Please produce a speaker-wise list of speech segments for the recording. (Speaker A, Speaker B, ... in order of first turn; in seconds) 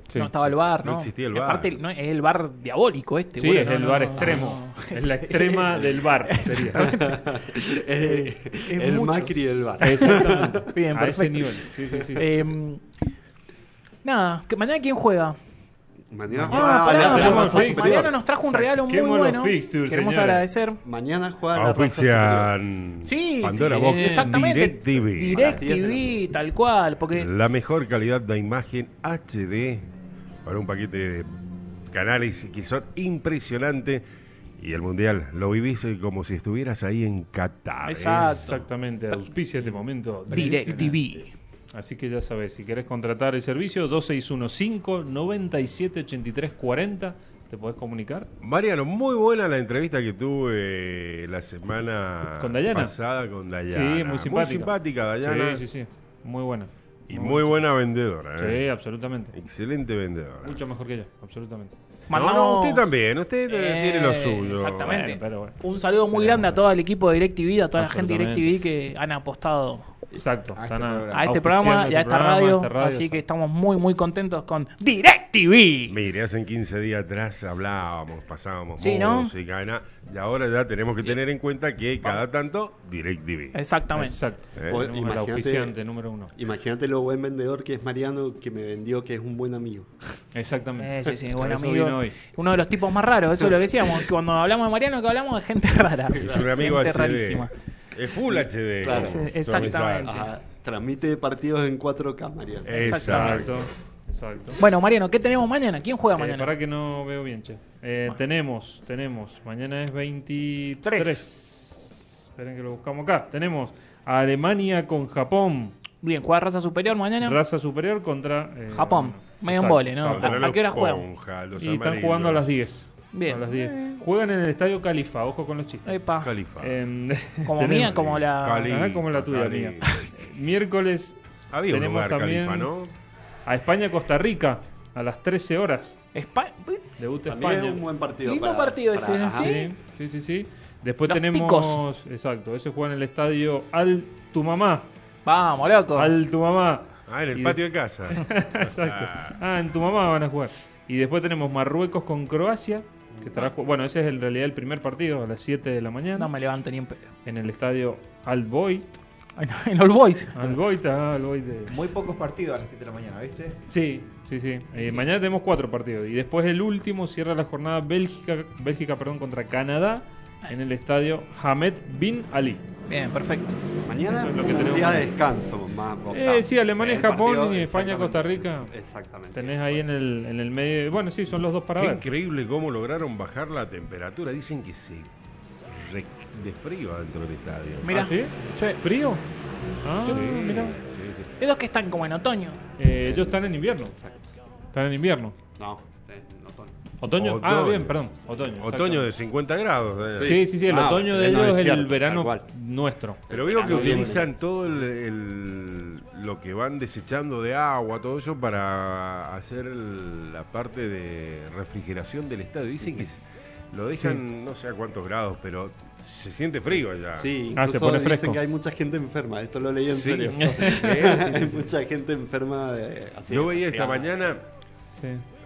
Speaker A: 0.1-0.3, 3.4-7.0, 9.8-12.3, 16.3-20.4, 23.7-24.4, 38.3-40.9, 41.7-48.3, 52.4-52.9, 53.7-57.6, 58.4-59.3, 60.4-61.7, 64.8-66.6, 67.7-68.6, 70.1-73.2, 83.9-86.3, 90.3-92.2, 103.1-104.6, 106.1-115.7, 117.2-120.4, 121.6-126.0, 126.6-128.0, 128.7-131.2, 131.7-132.7, 133.4-136.0, 137.0-137.8, 139.3-144.9, 145.9-147.6, 148.1-156.3, 157.2-158.8, 160.3-161.8, 163.7-172.6, 174.1-175.1, 176.1-178.7, 179.3-182.0, 187.9-189.2, 189.8-190.8, 192.8-193.9, 194.7-195.3, 197.0-199.1, 200.2-204.1, 217.5-218.4, 220.3-221.2, 224.9-225.2
Speaker B: 0.1-7.1, 8.0-12.8, 14.0-15.4, 16.5-20.8, 23.0-27.3, 37.9-38.6, 40.3-41.3, 62.1-62.8, 63.5-69.9, 71.1-75.9, 78.8-79.3, 83.5-84.2, 90.8-97.5, 98.9-100.3, 102.8-103.4, 104.6-106.5, 110.8-111.2, 116.0-117.4, 118.7-121.0, 123.1-124.0, 125.8-126.3, 127.5-128.8, 136.1-136.8, 138.2-139.7, 141.1-141.8, 145.2-146.1, 156.2-157.1, 159.4-160.5, 164.8-165.0, 172.9-173.6, 187.8-189.2, 190.0-190.7, 191.4-192.6, 203.8-204.1
Speaker C: 0.7-1.8, 21.5-25.6, 27.1-29.9, 30.4-31.4, 31.9-34.0, 34.6-38.4, 48.4-55.6, 57.1-58.6, 59.3-60.6, 62.1-65.0, 75.9-83.6, 84.5-84.8, 96.1-100.1, 102.7-103.6, 120.1-122.5, 126.2-126.7, 127.8-130.0, 131.5-132.9, 147.1-149.3, 181.8-185.1, 185.7-187.9, 190.8-191.3, 197.2-197.9, 198.6-200.4, 203.3-217.3, 219.9-221.5, 223.3-224.4
Speaker D: 6.7-10.6, 16.1-18.1, 20.8-22.5, 25.3-26.2, 84.7-85.8, 86.3-89.9, 96.2-96.5, 98.3-103.4, 137.2-139.7, 173.8-179.8, 193.0-194.3, 195.6-196.7, 200.2-202.4, 203.3-204.3, 217.2-224.1
Speaker E: 40.3-41.1, 70.5-71.3, 161.7-163.6